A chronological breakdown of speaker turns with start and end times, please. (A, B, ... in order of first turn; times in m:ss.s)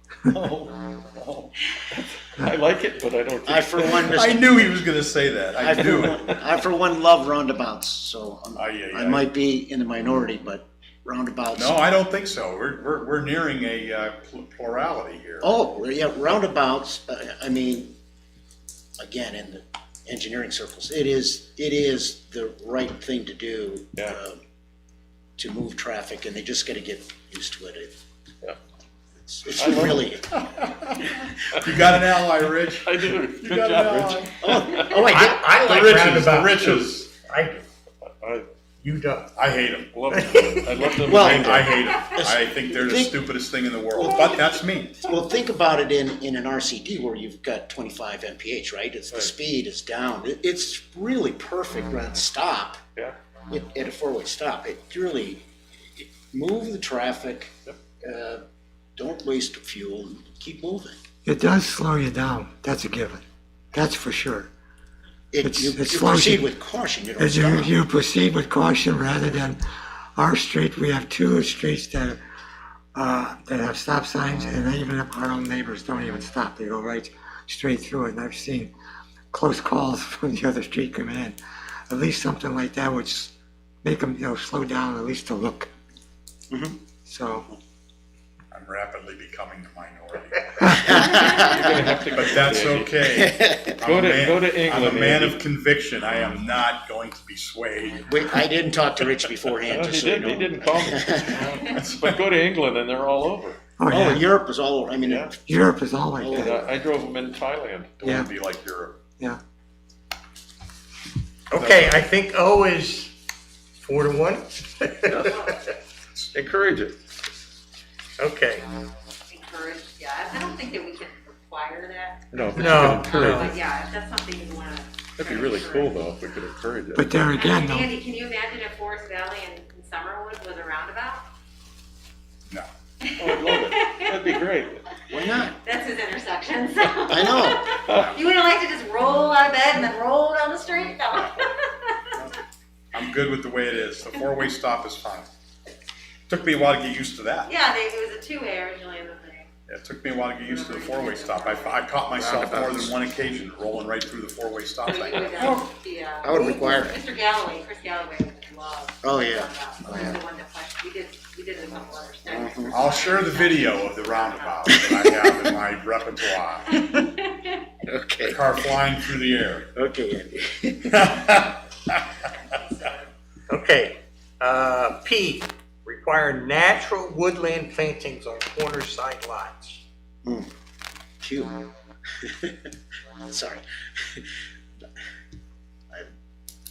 0:00.2-0:01.5 A
0:01.9-0:04.2 B
0:03.4-0:04.7 C
0:04.0-0:06.3 A
0:05.5-0:11.8 C
0:08.6-0:09.3 A
0:11.5-0:15.5 A
0:15.4-0:17.9 C
0:19.0-0:24.4 C
0:25.4-0:27.9 C
0:29.2-0:30.3 C
0:29.6-0:30.1 B
0:30.5-0:34.3 A
0:32.8-0:35.1 B
0:34.4-0:35.5 C
0:35.0-0:37.6 D
0:35.5-0:37.1 A
0:38.0-0:38.5 B
0:38.8-0:39.3 D
0:39.4-0:40.6 A
0:39.9-0:42.1 B
0:40.1-0:40.9 D
0:41.0-0:43.2 C
0:41.1-0:45.1 A
0:44.0-0:44.4 C
0:45.0-0:52.8 C
0:53.5-0:58.4 C
0:59.0-1:01.0 C
1:01.2-1:04.5 E
1:05.3-1:07.7 C
1:05.4-1:06.4 E
1:07.2-1:09.6 E
1:10.2-1:12.2 E
1:12.9-1:18.7 E
1:19.3-1:21.4 E
1:21.9-1:25.7 E
1:26.5-1:26.8 C
1:27.0-1:27.5 E
1:28.5-1:31.3 A
1:30.7-1:31.9 C
1:30.8-1:33.0 B
1:32.1-1:38.2 A
1:33.1-1:33.8 C
1:33.8-1:35.4 B
1:38.1-1:41.6 C
1:39.7-1:43.6 B
1:41.7-1:42.1 A
1:43.8-1:44.3 E
1:43.9-1:45.3 C
1:45.0-1:45.3 B
1:45.4-1:46.6 E
1:46.2-1:46.6 C
1:46.3-1:48.0 B
1:48.0-1:49.0 A
1:48.0-1:48.3 E
1:51.5-1:53.2 D
1:53.8-1:55.6 D
1:55.0-1:55.4 B
1:55.2-1:55.8 F
1:56.3-1:57.0 B
1:58.2-1:58.6 D
1:59.3-2:06.0 F
2:02.3-2:03.6 B
2:02.5-2:03.5 D
2:05.2-2:07.1 B
2:06.9-2:07.9 E
2:07.3-2:11.2 F
2:13.0-2:14.4 F
2:13.2-2:14.8 B
2:15.1-2:22.3 F
2:15.1-2:15.5 C
2:17.0-2:17.6 C
2:17.9-2:18.1 B
2:22.9-2:25.3 A
2:26.3-2:27.5 A
2:27.4-2:29.5 F
2:29.7-2:35.7 A
2:30.4-2:31.9 F
2:32.2-2:32.9 C
2:34.8-2:44.8 F
2:36.2-2:37.0 C
2:39.0-2:40.2 C
2:42.2-2:42.8 C
2:42.7-2:46.7 A
2:44.7-2:45.5 C
2:46.7-2:47.6 F
2:47.9-2:48.4 C
2:48.2-2:49.7 A
2:49.7-2:51.1 C
2:50.9-2:52.1 A
2:52.2-2:53.1 F
2:53.5-2:59.8 D
3:00.2-3:00.5 C
3:01.2-3:01.7 C
3:02.2-3:02.6 C
3:03.2-3:04.3 C